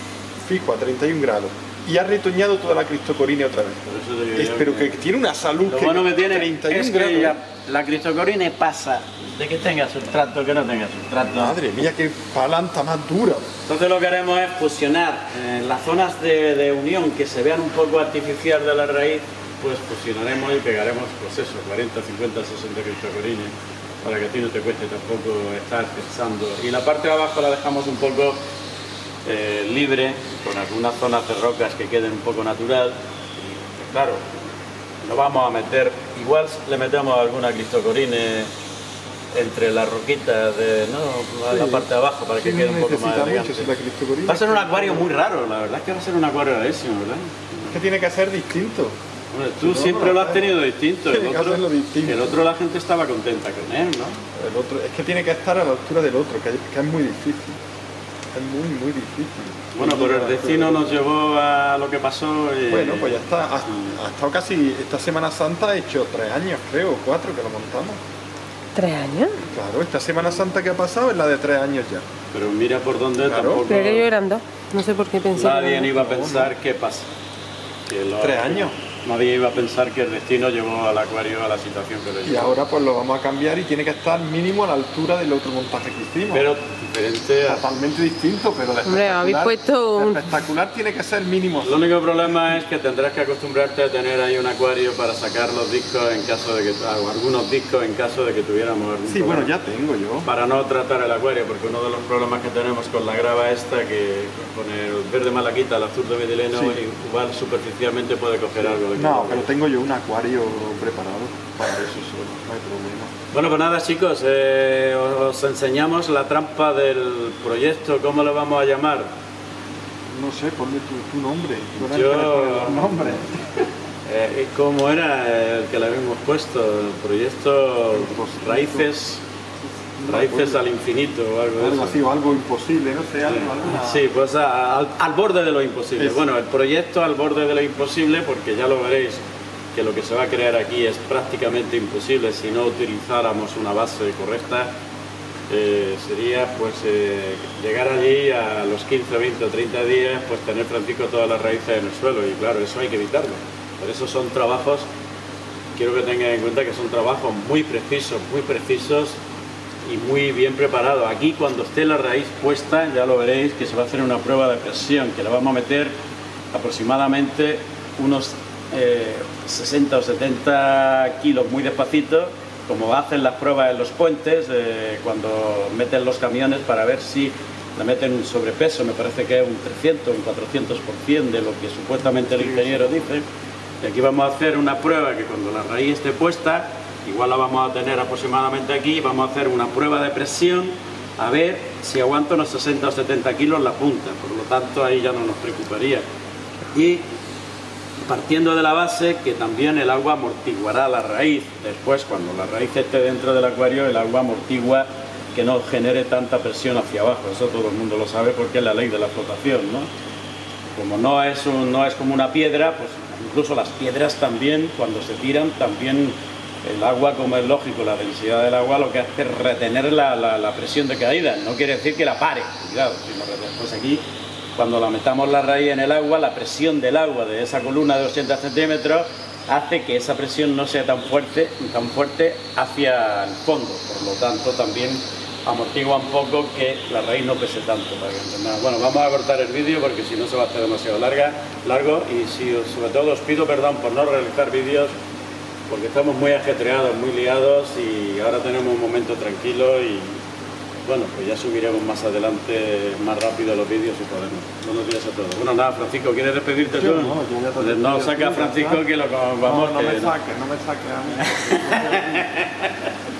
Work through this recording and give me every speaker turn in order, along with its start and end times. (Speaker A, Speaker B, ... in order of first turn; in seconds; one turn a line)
Speaker A: 0.4-3.8
Speaker B: 3.9-5.0
Speaker A: 4.3-7.4
Speaker B: 5.7-11.6
Speaker A: 11.3-13.4
Speaker B: 13.7-28.4
Speaker B: 29.2-34.2
Speaker B: 35.0-38.5
Speaker B: 39.3-43.7
Speaker A: 41.5-45.1
Speaker B: 44.3-47.8
Speaker A: 47.7-49.0
Speaker B: 49.3-54.2
Speaker A: 49.6-50.5
Speaker A: 51.1-52.4
Speaker A: 54.4-57.6
Speaker A: 58.3-61.0
Speaker B: 59.8-63.2
Speaker A: 62.7-68.0
Speaker C: 68.8-69.4
Speaker A: 69.5-72.0
Speaker B: 72.3-74.1
Speaker A: 73.2-73.6
Speaker C: 73.7-76.0
Speaker B: 75.3-77.1
Speaker A: 76.0-76.5
Speaker B: 77.9-82.5
Speaker A: 78.2-78.7
Speaker A: 82.2-86.5
Speaker B: 86.3-87.7
Speaker A: 87.5-91.9
Speaker C: 88.8-90.3
Speaker B: 91.6-99.5
Speaker A: 99.1-100.3
Speaker B: 100.2-109.5
Speaker A: 106.5-106.8
Speaker A: 108.6-113.1
Speaker B: 113.3-119.1
Speaker A: 120.1-123.5
Speaker B: 121.8-123.0
Speaker B: 124.0-129.2
Speaker A: 127.9-128.9
Speaker A: 130.0-130.6
Speaker B: 130.1-132.0
Speaker A: 131.6-134.1
Speaker B: 133.3-139.2
Speaker A: 136.0-136.2
Speaker B: 139.7-144.7
Speaker B: 145.5-154.9
Speaker B: 155.8-159.2
Speaker B: 159.8-165.9
Speaker B: 166.5-183.2
Speaker A: 182.1-182.9
Speaker B: 183.8-196.0
Speaker B: 196.7-197.1
Speaker B: 198.1-209.9
Speaker B: 210.8-224.0
Speaker B: 224.6-244.9
Speaker B: 245.7-250.2
Speaker B: 250.8-260.1
Speaker A: 256.7-258.8
Speaker A: 259.4-262.3
Speaker B: 261.5-262.8